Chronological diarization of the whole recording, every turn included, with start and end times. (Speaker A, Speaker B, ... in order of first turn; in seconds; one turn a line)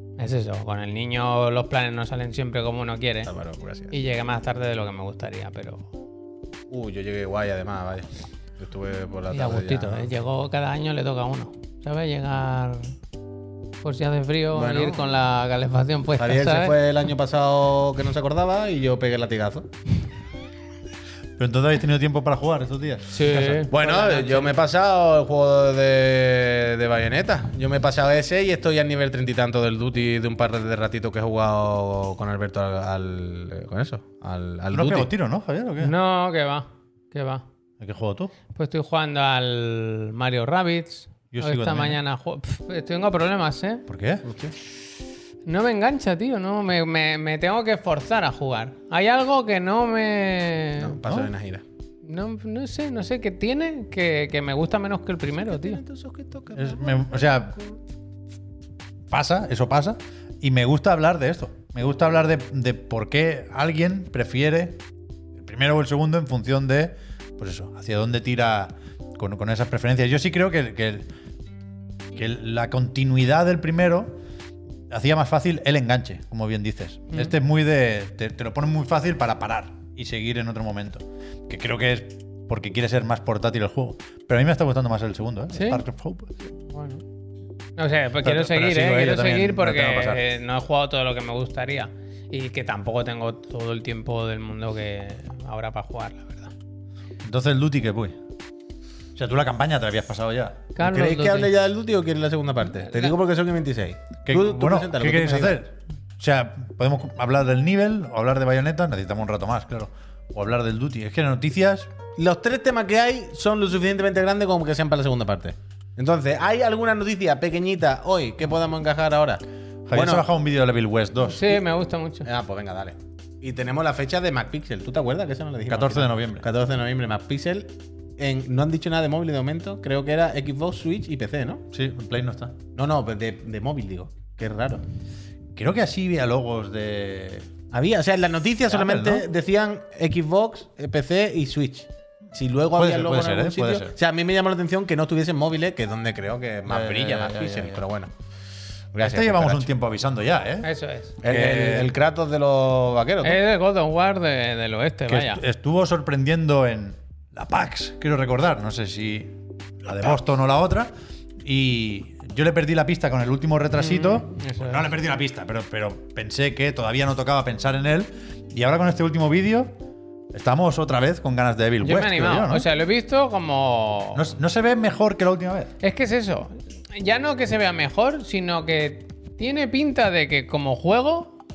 Speaker A: 0.2-3.3
Speaker B: 3.2-3.9
Speaker A: 3.9-5.9
Speaker B: 6.7-10.1
Speaker A: 9.3-12.9
Speaker A: 13.8-16.8
Speaker B: 14.5-15.1
Speaker B: 16.2-19.7
Speaker C: 21.4-23.6
Speaker A: 23.1-24.6
Speaker B: 23.7-35.1
Speaker C: 34.7-35.9
Speaker A: 35.8-37.5
Speaker C: 37.8-38.3
Speaker A: 38.5-43.9
Speaker C: 41.3-42.0
Speaker C: 43.9-44.2
Speaker B: 44.2-44.5
Speaker A: 45.5-51.0
Speaker B: 50.8-51.6
Speaker C: 51.0-51.3
Speaker A: 52.0-55.8
Speaker B: 55.4-57.1
Speaker C: 56.5-57.6
Speaker C: 59.1-64.8
Speaker C: 65.4-71.1
Speaker C: 72.2-74.2
Speaker C: 74.9-86.3
Speaker A: 85.5-85.8
Speaker A: 86.6-87.0
Speaker A: 87.8-96.5
Speaker C: 88.2-90.2
Speaker C: 97.2-98.2
Speaker C: 99.2-100.7
Speaker A: 100.8-101.5
Speaker B: 100.8-105.6
Speaker A: 102.9-103.1
Speaker C: 104.3-111.9
Speaker B: 112.2-120.3
Speaker C: 119.9-121.5
Speaker A: 121.2-122.3
Speaker B: 122.2-131.6
Speaker C: 125.7-126.5
Speaker C: 131.7-132.6
Speaker B: 132.8-134.8
Speaker C: 135.6-137.5
Speaker B: 137.7-148.1
Speaker C: 138.7-139.3
Speaker C: 142.7-143.9
Speaker C: 146.7-147.8
Speaker B: 148.9-149.7
Speaker C: 149.0-150.7
Speaker A: 150.6-151.2
Speaker B: 151.2-153.4
Speaker C: 151.2-151.9
Speaker A: 153.2-155.4
Speaker C: 155.1-160.9
Speaker C: 161.4-169.7
Speaker A: 163.8-164.9
Speaker C: 170.3-172.7
Speaker A: 171.8-174.3
Speaker C: 174.1-175.7
Speaker A: 175.8-181.4